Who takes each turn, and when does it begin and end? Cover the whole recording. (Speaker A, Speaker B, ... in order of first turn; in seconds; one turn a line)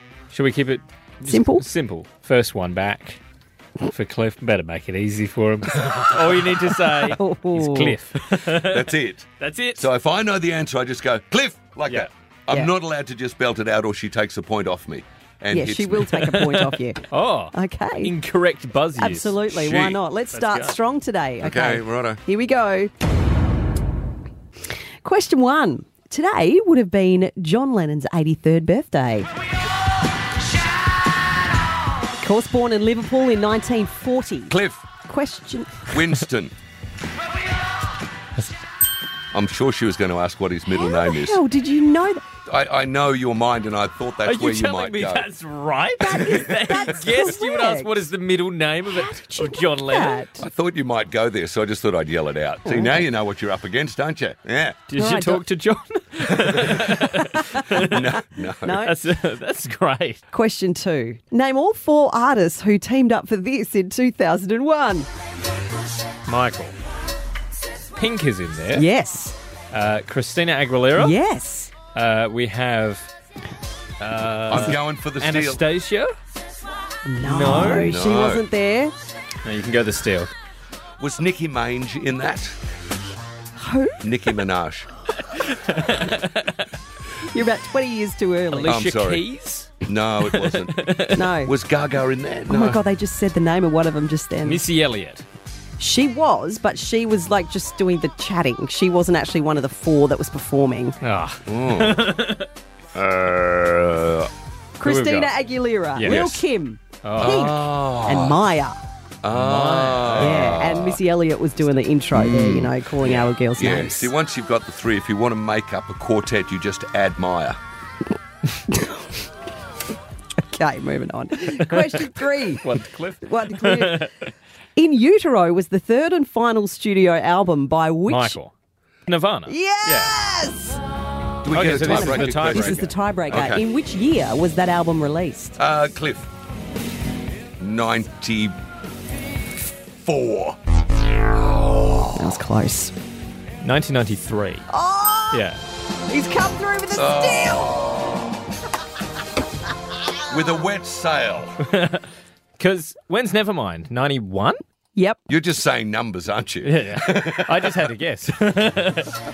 Speaker A: 0.3-3.2
Speaker B: 1.2-1.6
Speaker A: 3.8-9.8
Speaker C: 5.8-6.6
Speaker B: 7.0-8.0
Speaker C: 8.4-16.3
Speaker B: 15.5-18.1
Speaker A: 16.2-19.4
Speaker B: 19.0-22.9
Speaker C: 19.5-20.0
Speaker A: 20.3-20.8
Speaker C: 21.4-22.2
Speaker B: 25.0-29.3
Speaker B: 32.1-35.9
Speaker C: 34.5-34.8
Speaker C: 35.9-36.5
Speaker C: 39.3-41.4
Speaker B: 40.7-42.2
Speaker C: 42.5-45.3
Speaker A: 44.2-50.3
Speaker B: 46.0-47.9
Speaker B: 48.9-50.4
Speaker C: 50.4-54.8
Speaker B: 52.6-53.0
Speaker A: 54.9-60.2
Speaker B: 55.0-55.4
Speaker C: 56.4-57.0
Speaker B: 57.1-57.8
Speaker C: 57.7-58.8
Speaker B: 58.6-58.9
Speaker B: 60.3-65.1
Speaker A: 66.2-66.7
Speaker A: 68.0-68.8
Speaker B: 68.7-69.3
Speaker A: 69.7-71.2
Speaker B: 71.0-71.7
Speaker A: 71.9-73.1
Speaker A: 74.0-76.1
Speaker C: 74.5-75.6
Speaker B: 77.0-78.9
Speaker A: 77.2-78.0
Speaker C: 77.7-78.5
Speaker A: 79.4-80.3
Speaker C: 81.0-82.5
Speaker B: 83.5-84.0
Speaker C: 84.0-84.9
Speaker A: 85.2-86.7
Speaker B: 87.2-88.8
Speaker A: 88.5-91.3
Speaker C: 88.6-89.2
Speaker C: 89.8-92.8
Speaker B: 91.1-91.5
Speaker B: 92.5-94.6
Speaker A: 94.4-95.2
Speaker B: 95.8-101.0
Speaker A: 101.0-102.5
Speaker C: 101.5-102.1
Speaker C: 102.9-104.3
Speaker B: 104.8-108.8
Speaker A: 104.8-105.3
Speaker A: 105.9-106.4
Speaker C: 106.0-106.4
Speaker A: 107.0-107.7
Speaker C: 107.2-108.4
Speaker C: 109.2-111.0
Speaker A: 109.3-110.7
Speaker B: 110.2-114.1
Speaker C: 112.1-117.6
Speaker B: 118.7-119.1
Speaker B: 120.4-122.6
Speaker A: 121.7-124.3
Speaker B: 123.2-124.1
Speaker B: 124.8-128.4
Speaker A: 128.1-128.5
Speaker A: 129.1-130.1
Speaker B: 129.5-130.8
Speaker C: 131.4-133.7
Speaker A: 131.5-133.4
Speaker B: 131.8-135.6
Speaker C: 135.6-136.3
Speaker C: 137.6-138.6
Speaker C: 140.0-140.6
Speaker C: 141.3-142.3
Speaker B: 142.1-142.9
Speaker A: 143.6-144.7
Speaker B: 144.7-145.5
Speaker A: 145.3-145.6
Speaker B: 146.1-147.9
Speaker C: 146.9-148.2
Speaker C: 150.3-151.6
Speaker A: 151.7-152.1
Speaker A: 152.6-154.6
Speaker B: 154.9-155.2
Speaker C: 155.3-157.9
Speaker A: 156.6-159.1